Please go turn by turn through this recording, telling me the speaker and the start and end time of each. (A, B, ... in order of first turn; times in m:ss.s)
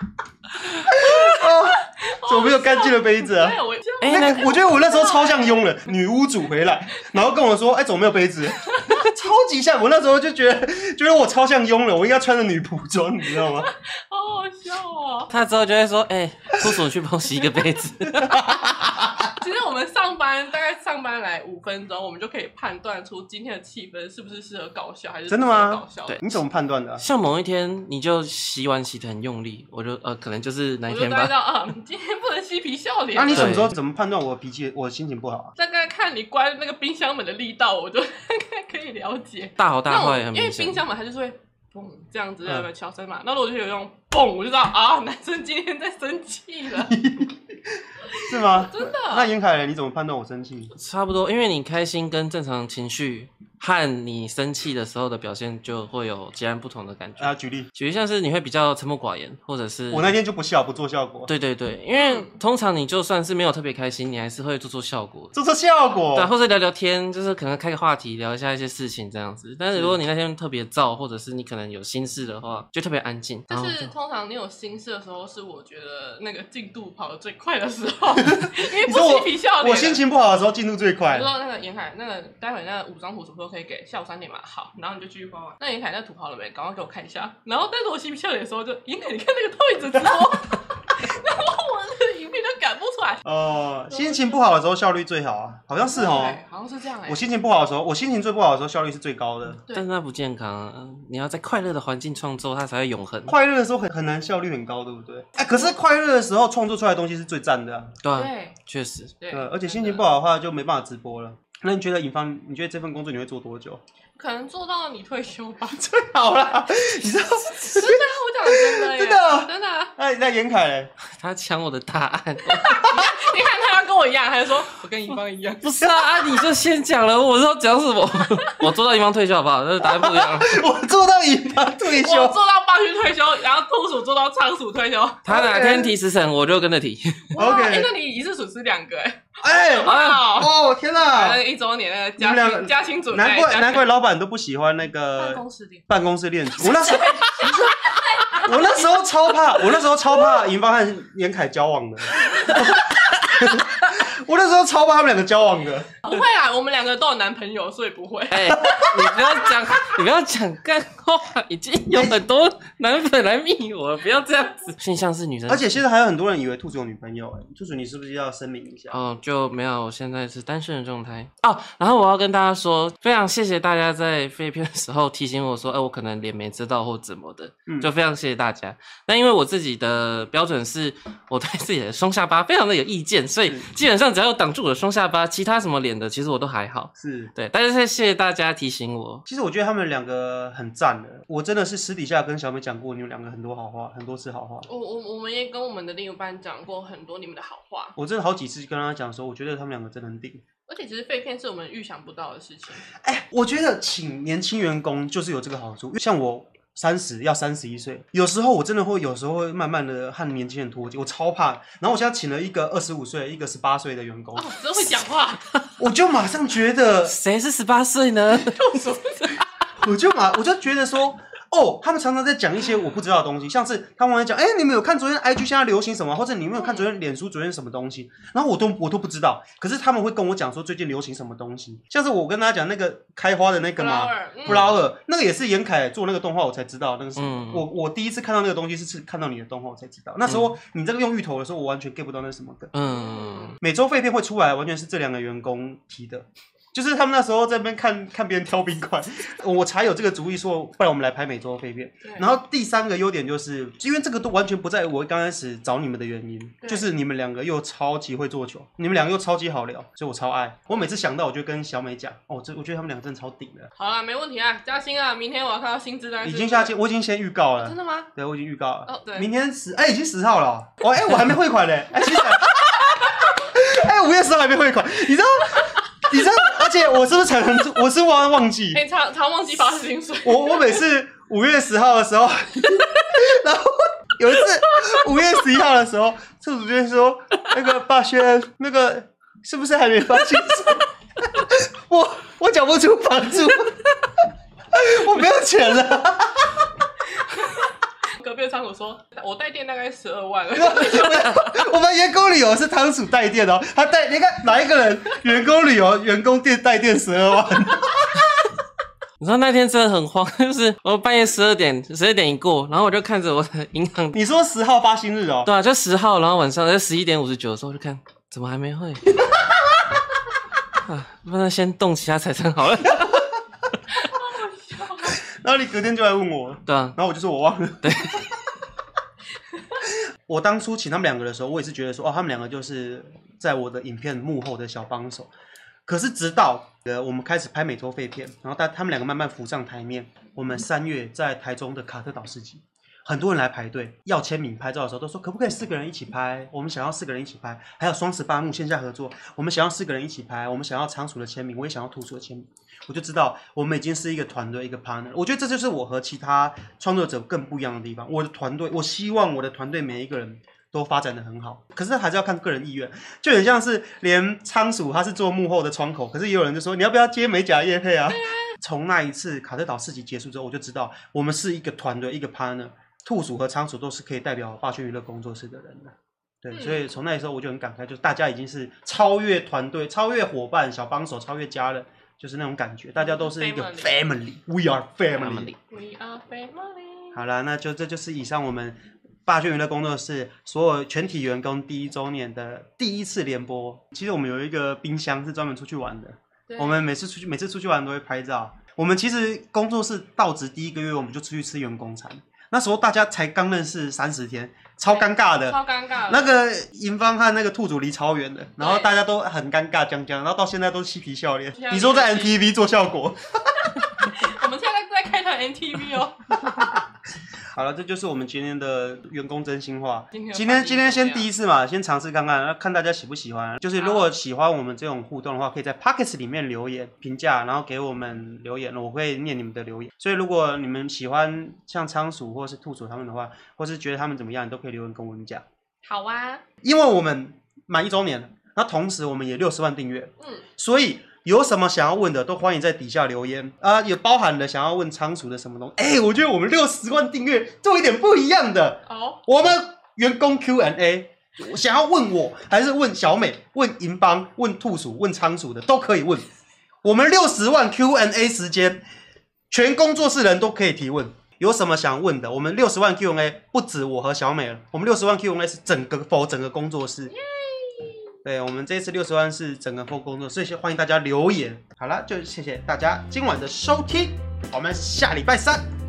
0:00.7-0:05.7 A
0:00.8-0:13.7 B
0:04.0-0:04.6 C
0:08.6-0:09.1 A
0:13.4-0:15.3 A
0:15.3-0:18.5 C
0:18.1-0:19.3 B
0:19.2-0:26.2 A
0:25.3-0:27.0 B
0:27.0-0:31.3 C
0:30.9-0:33.6 A
0:33.1-0:35.5 B
0:33.3-0:33.7 C
0:35.6-0:46.9 A
0:39.6-0:40.8 C
0:46.8-0:50.7 B
0:48.1-0:49.3 A
0:50.8-1:00.2 C
0:57.2-0:57.7 B
0:59.9-1:01.3 B
1:01.3-1:05.3 C
1:01.9-1:02.3 A
1:05.3-1:06.3 B
1:06.1-1:13.9 C
1:13.5-1:20.0 A
1:18.2-1:21.3 B
1:21.1-1:33.2 A
1:33.2-1:36.4 B
1:33.9-1:34.4 A
1:35.9-1:37.3 A
1:37.0-1:39.6 B
1:39.7-1:43.4 C
1:43.3-1:48.0 B
1:45.4-1:45.7 A
1:48.0-1:49.1 C
1:48.1-1:48.6 A
1:49.2-1:50.0 A
1:49.3-1:53.8 B
1:54.2-1:55.8 A
1:55.7-2:00.9 B
1:57.5-1:59.9 A
2:01.1-2:03.1 C
2:02.5-2:05.8 A
2:05.6-2:10.6 C
2:05.8-2:06.1 B
2:09.8-2:12.4 B
2:11.8-2:15.4 A
2:15.2-2:17.3 C
2:15.3-2:15.9 B
2:17.3-2:20.5 A
2:17.3-2:17.9 B
2:19.4-2:21.4 B
2:19.8-2:20.2 C
2:21.1-2:23.8 A
2:22.2-2:35.9 B
2:25.2-2:25.8 A
2:26.6-2:29.6 A
2:32.3-2:32.7 A
2:36.0-2:39.2 A
2:38.3-2:45.8 C
2:38.5-2:39.0 B
2:41.9-2:42.2 B
2:45.5-2:49.0 B
2:48.9-3:09.2 C
2:57.7-2:57.9 B
3:07.0-3:07.3 B
3:09.3-3:14.7 B
3:14.6-3:18.0 A
3:18.0-3:20.4 B
3:20.7-3:22.8 A
3:23.0-3:34.5 B
3:34.4-3:35.4 A
3:35.8-3:37.2 B
3:37.0-3:38.9 C
3:38.4-3:39.4 A
3:39.8-4:02.7 B
3:46.5-3:46.9 A
3:53.8-3:54.8 A
3:57.2-3:57.6 C
4:00.3-4:00.5 C
4:02.7-4:03.6 C
4:02.8-4:03.6 A
4:03.6-4:23.7 B
4:16.6-4:16.9 A
4:23.8-4:26.7 A
4:26.2-4:38.8 B
4:27.6-4:28.1 A
4:28.9-4:29.3 A
4:32.2-4:32.8 A
4:38.7-4:40.8 A
4:40.2-4:53.9 B
4:54.7-4:56.7 B
4:57.2-5:01.6 A
5:00.5-5:08.2 B
5:09.2-5:14.2 C
5:14.1-5:15.5 B
5:15.4-5:19.1 C
5:20.7-5:23.2 C
5:22.9-5:23.2 B
5:24.0-5:25.2 A
5:25.2-5:28.3 B
5:26.6-5:27.0 C
5:27.8-5:28.3 C
5:29.9-5:35.3 B
5:35.8-6:25.6 B
6:08.1-6:08.5 A
6:16.5-6:16.8 A
6:23.0-6:24.0 A
6:25.2-6:25.5 C
6:25.7-6:27.2 A
6:27.1-6:53.8 B
6:36.5-6:36.8 A
6:44.9-6:46.3 A
6:48.6-6:48.9 A
6:51.6-6:52.4 A
6:53.7-6:56.8 A
6:56.4-6:56.8 B
6:57.5-7:15.4 B
7:00.1-7:01.3 A
7:03.8-7:04.1 A
7:15.8-7:16.4 A
7:16.6-7:36.3 B
7:20.2-7:20.4 A
7:28.9-7:29.2 A
7:36.8-7:38.8 B
7:39.5-7:47.1 B
7:47.1-7:48.1 A
7:48.2-7:55.6 B